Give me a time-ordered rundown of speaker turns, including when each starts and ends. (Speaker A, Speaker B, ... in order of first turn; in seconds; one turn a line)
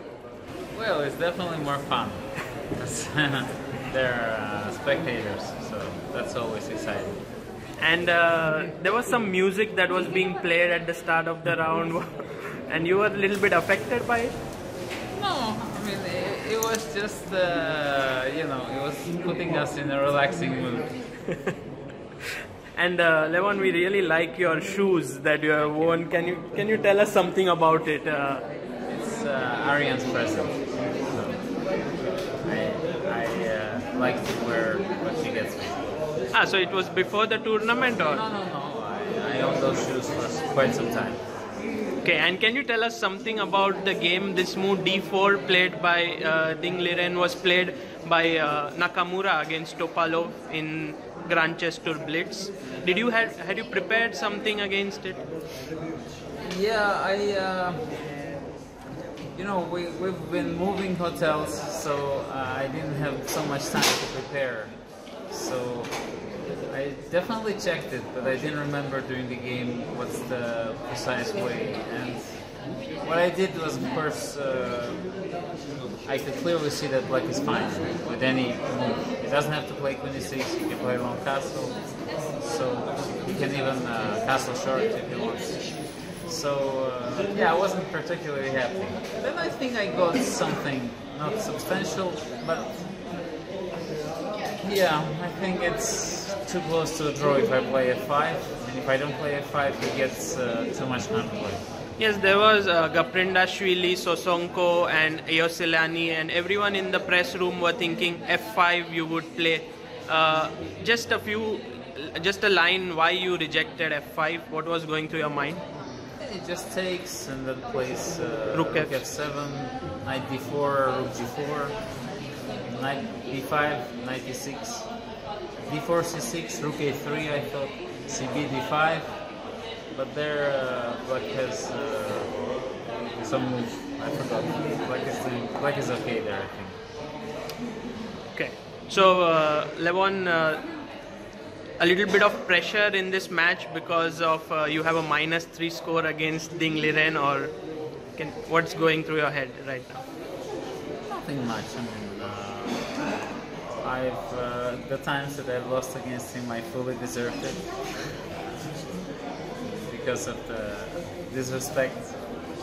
Speaker A: 0.7-7.2
Speaker B: 7.8-14.4
Speaker A: 15.2-20.9
Speaker B: 21.3-21.5
Speaker B: 22.7-28.4
Speaker A: 25.6-26.1
Speaker A: 28.9-31.5
Speaker A: 32.4-35.9
Speaker B: 36.3-38.2
Speaker A: 38.0-41.2
Speaker B: 42.0-55.3
Speaker A: 56.4-57.9
Speaker A: 59.3-66.0
Speaker A: 66.7-75.1
Speaker A: 76.0-85.7
Speaker A: 86.2-92.9
Speaker A: 94.6-101.6
Speaker B: 102.0-115.6
Speaker A: 116.2-121.9
Speaker B: 118.5-119.0
Speaker A: 122.7-124.9
Speaker A: 125.7-129.3
Speaker A: 129.9-132.4
Speaker A: 133.2-136.8
Speaker B: 138.3-140.7
Speaker B: 141.8-147.6
Speaker B: 148.2-150.0
Speaker A: 151.1-152.9
Speaker A: 153.8-157.8
Speaker A: 159.9-162.4